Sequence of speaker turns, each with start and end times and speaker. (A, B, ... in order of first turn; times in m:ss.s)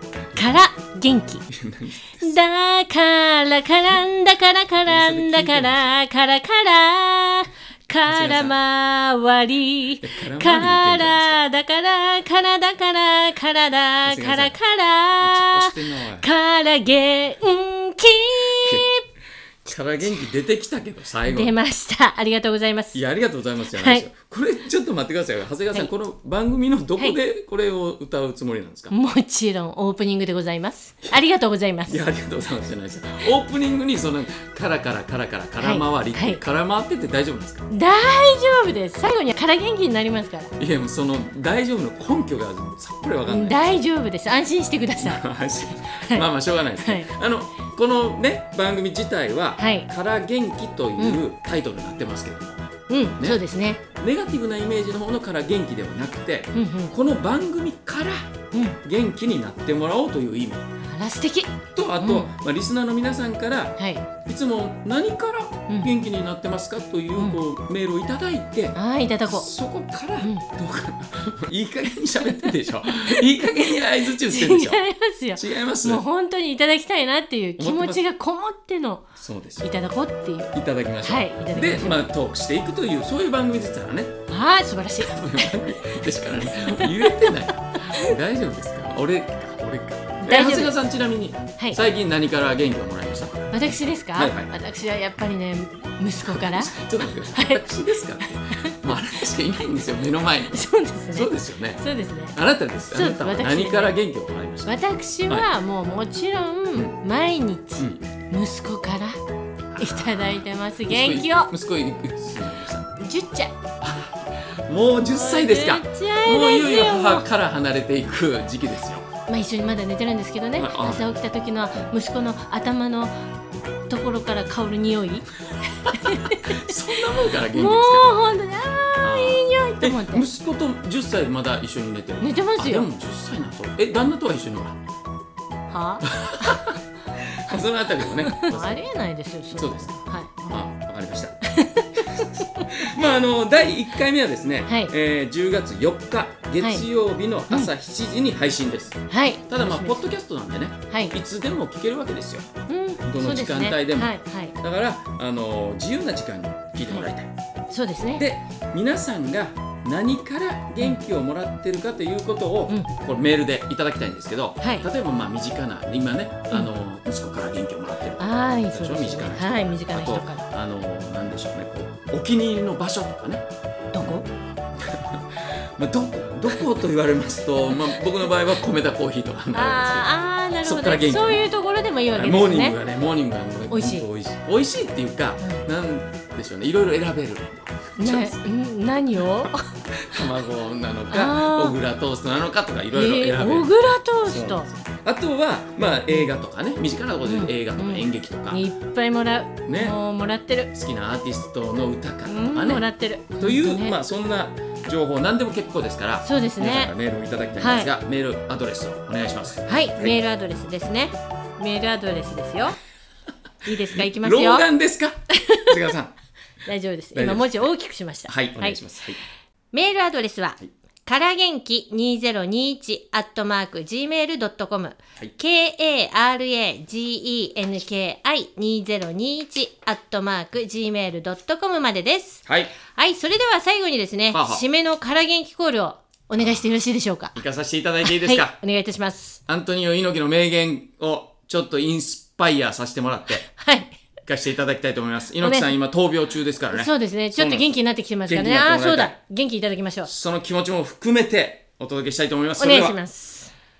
0:00.3-0:01.4 A
0:01.5-0:02.3 B
0:02.2-0:19.0 A
0:04.8-0:05.9 B
0:08.0-0:08.5 B
0:10.0-0:11.4 B
0:14.0-0:14.6 B
0:15.2-0:16.3 B
0:18.6-0:18.9 B
0:19.6-0:21.5 B
0:21.2-0:23.0 A
0:22.9-0:28.9 B
0:23.7-0:24.1 A
0:28.9-0:32.0 A
0:31.9-0:37.7 B
0:35.6-0:36.4 A
0:37.7-0:40.5 A
0:40.6-0:43.8 B
0:43.3-0:45.2 A
0:45.0-0:52.6 B
0:45.9-0:46.3 A
0:46.8-0:47.1 A
0:49.6-0:49.9 A
0:52.9-0:53.8 A
0:53.9-0:58.2 B
0:56.5-0:56.9 A
0:58.5-0:58.8 A
0:58.8-1:00.6 B
1:00.8-1:02.3 A
1:01.7-1:14.8 B
1:03.8-1:04.0 A
1:08.8-1:09.5 A
1:12.2-1:19.1 A
1:15.4-1:16.0 B
1:17.6-1:18.0 B
1:19.2-1:19.7 B
1:19.6-1:22.0 A
1:20.5-1:24.2 B
1:24.3-1:27.3 A
1:25.0-1:33.5 B
1:30.2-1:30.8 A
1:33.5-1:39.0 A
1:34.1-1:34.5 B
1:36.3-1:41.8 B
1:40.5-1:42.4 A
1:42.3-1:44.8 B
1:42.9-1:43.9 A
1:44.6-1:49.2 A
1:49.7-1:52.9 B
1:49.8-1:51.5 A
1:53.0-1:53.5 A
1:53.8-1:59.1 B
1:55.0-1:57.3 A
1:59.3-2:03.1 A
2:00.6-2:01.1 B
2:03.9-2:05.3 A
2:05.8-2:06.7 A
2:05.9-2:08.1 B
2:07.4-2:10.2 A
2:09.0-2:14.8 B
2:12.2-2:12.9 A
2:15.7-2:16.7 A
2:16.1-2:18.8 B
2:18.2-2:20.7 A
2:19.5-2:21.4 B
2:21.4-2:22.8 A
2:22.1-2:32.5 B
2:24.7-2:24.9 A
2:26.6-2:26.8 A
2:29.1-2:30.0 A
2:30.9-2:31.2 A
2:32.7-2:34.5 A
2:33.0-2:37.3 B
2:37.7-2:38.2 A
2:38.2-2:53.4 B
2:44.6-2:44.9 A
2:48.2-2:50.4 A
2:53.9-2:54.3 A
2:54.8-3:00.1 B
2:59.5-3:02.8 A
3:00.6-3:01.4 B
3:02.2-3:08.5 B
3:03.7-3:04.0 A
3:08.0-3:09.7 A
3:09.9-3:13.7 B
3:11.1-3:11.8 A
3:12.9-3:14.7 A
3:14.2-3:18.6 B
3:17.2-3:20.7 A
3:19.6-3:20.0 B
3:20.7-3:30.2 B
3:22.2-3:24.0 A
3:26.2-3:26.9 A
3:27.6-3:27.9 A
3:29.6-3:32.8 A
3:33.6-3:34.7 A
3:33.9-3:36.1 B
3:35.3-3:35.8 A
3:36.6-3:38.8 A
3:37.1-3:37.7 B
3:38.3-3:39.2 B
3:39.7-3:57.4 A
3:52.4-3:52.7 B
3:54.3-3:54.6 B
3:57.3-3:58.6 B
3:58.0-3:59.4 A
3:59.5-4:03.5 B
4:03.5-4:04.0 A
4:04.2-4:07.7 B
4:05.4-4:05.7 A
4:06.7-4:10.1 A
4:08.3-4:09.1 B
4:10.1-4:13.0 B
4:12.6-4:13.5 A